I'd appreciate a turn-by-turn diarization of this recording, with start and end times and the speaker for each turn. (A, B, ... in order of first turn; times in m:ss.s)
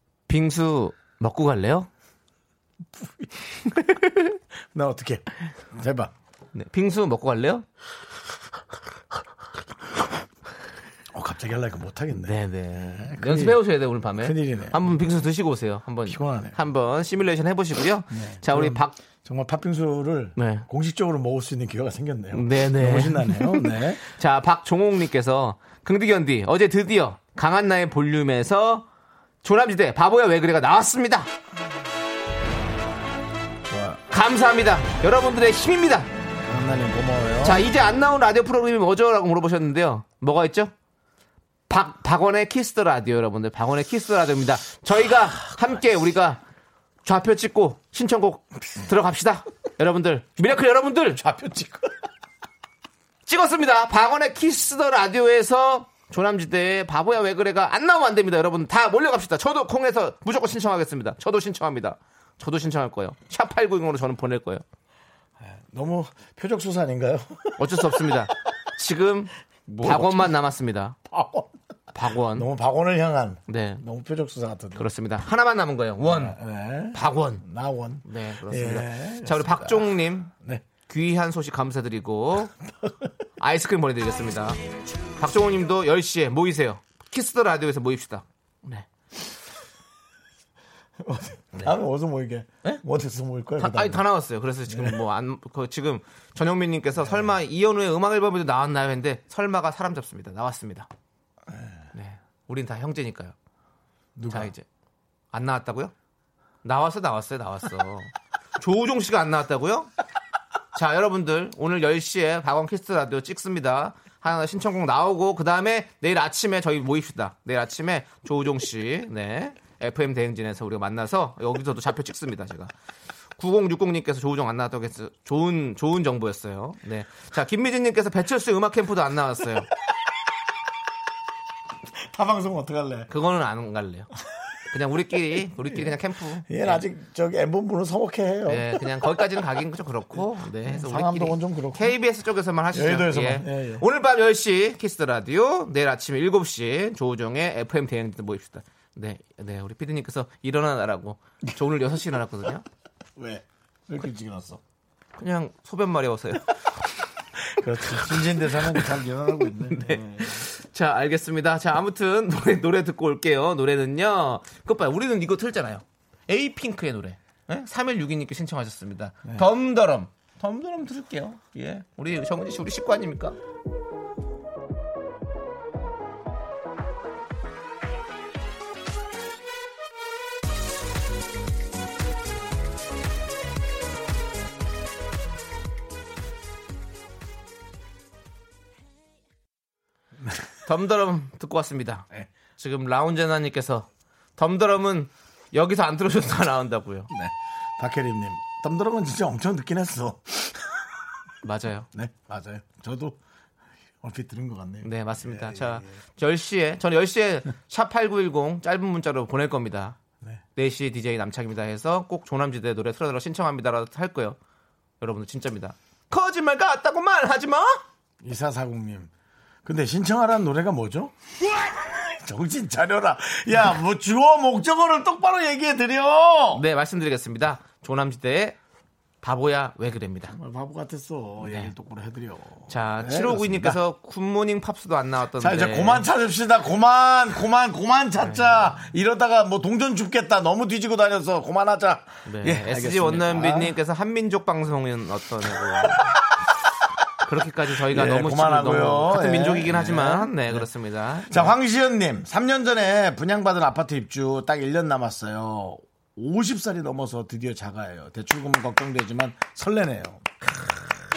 0:00.3-0:01.9 A
0:03.0-0:03.9 B
0:04.7-0:06.1 B
0:06.5-0:07.6 A
0:11.1-0:13.6 B
0:12.2-0:19.0 A
0:14.2-0:14.9 B
0:16.1-0:16.6 B
0:18.1-0:24.0 B
0:20.4-0:20.7 A
0:22.3-0:28.9 A
0:29.4-0:31.3 A
0:33.7-0:34.0 B
0:34.1-0:36.1 A
0:36.4-0:37.6 B
0:37.4-0:40.7 A
0:41.7-0:46.4 A
0:47.0-0:51.2 A
0:51.2-0:52.0 B
0:53.3-1:04.6 A
1:05.4-1:08.2 B
1:07.6-1:11.0 A
1:09.7-1:10.4 B
1:11.1-1:11.5 B
1:11.9-1:12.5 A
1:12.3-1:14.9 B
1:13.5-1:13.8 A
1:14.8-1:16.4 A
1:16.0-1:20.6 B
1:16.9-1:17.4 A
1:18.0-1:20.3 A
1:20.9-1:22.5 A
1:23.4-1:24.6 A
1:25.2-1:28.9 A
1:31.0-1:34.0 B
1:33.6-1:40.9 A
1:34.7-1:35.0 B
1:37.0-1:37.3 B
1:41.9-1:43.4 A
1:44.2-1:44.5 B
1:44.3-1:44.6 A
1:45.3-1:45.9 A
1:46.6-1:49.9 A
1:50.8-2:02.7 A
2:03.4-2:09.7 A
2:12.0-2:13.1 B
2:13.1-2:14.1 A
2:14.7-2:16.8 A
2:15.6-2:19.3 B
2:18.5-2:32.6 A
2:20.6-2:22.0 B
2:22.7-2:23.8 B
2:33.2-2:34.6 B
2:35.2-2:36.6 A
2:37.4-2:40.4 B
2:37.9-2:38.9 A
2:39.6-2:53.4 A
3:10.7-3:12.1 A
3:12.6-3:17.1 A
3:17.1-3:20.9 B
3:21.4-3:21.9 A
3:21.9-3:23.2 B
3:24.0-3:26.0 B
3:24.8-3:30.0 A
3:30.6-3:34.4 A
3:35.0-3:37.8 A
3:38.2-3:39.1 B
3:39.6-3:46.6 B
3:46.5-3:48.6 A
3:49.2-3:50.4 A
3:50.3-3:53.8 B
3:51.4-3:51.7 A
3:52.7-3:56.1 A
3:55.4-4:03.7 B
3:58.2-3:58.8 A
4:02.3-4:06.1 A
4:05.8-4:06.1 B
4:07.2-4:11.6 A
4:07.9-4:10.7 B
4:11.3-4:20.2 B